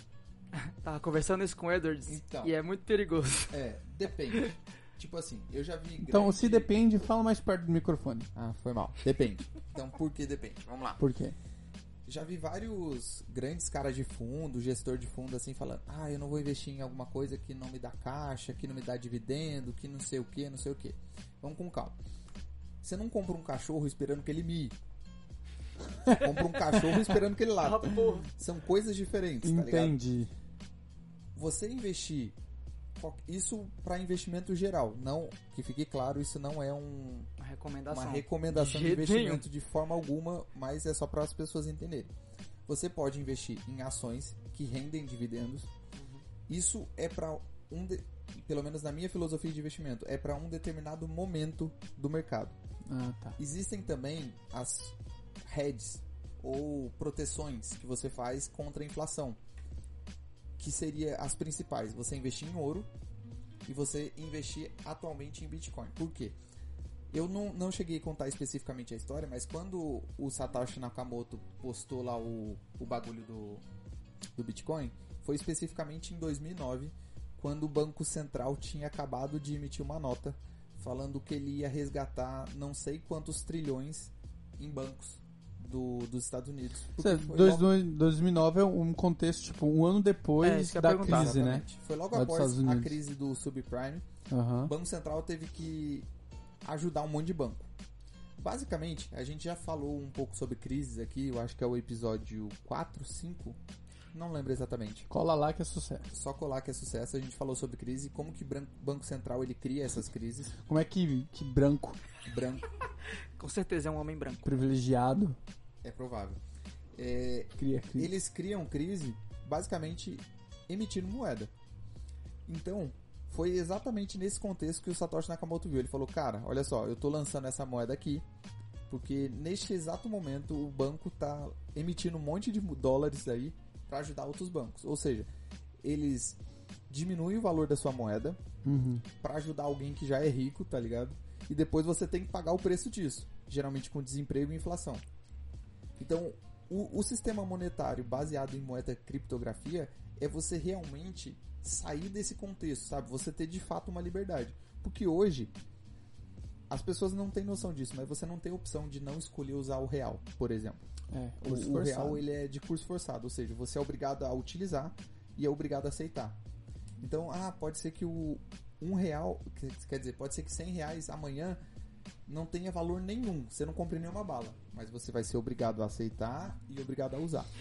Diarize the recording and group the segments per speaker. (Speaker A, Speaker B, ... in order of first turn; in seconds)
Speaker A: 0.5-3.6, 27.6-28.3, 37.4-39.5, 46.0-46.2, 90.4-91.4, 113.4-114.6
Speaker B: 2.1-2.5, 3.5-6.7, 8.3-11.0, 12.1-22.0, 22.8-24.8, 26.1-30.0, 31.4-32.4, 33.0-37.3, 37.9-42.1, 42.7-45.7, 46.5-52.6, 53.4-59.4, 60.6-62.9, 63.7-66.4, 67.1-73.6, 74.3-87.7, 91.0-94.0, 94.7-96.1, 96.6-97.7, 98.4-103.6, 104.1-105.1, 106.1-110.6, 112.2-112.7, 115.8-116.4, 117.0-121.5, 122.5-128.2, 128.9-135.3, 135.8-138.4, 139.2-145.0, 146.0-155.5, 156.7-160.8, 161.4-166.4, 167.0-171.6, 172.3-177.5
Speaker C: 6.0-8.3, 11.0-11.4, 26.0-27.2, 29.4-30.3, 52.9-53.4, 87.0-93.0, 94.3-94.7, 105.1-106.1, 110.6-112.0, 114.5-115.4, 117.6-118.1, 138.6-139.1, 161.1-162.2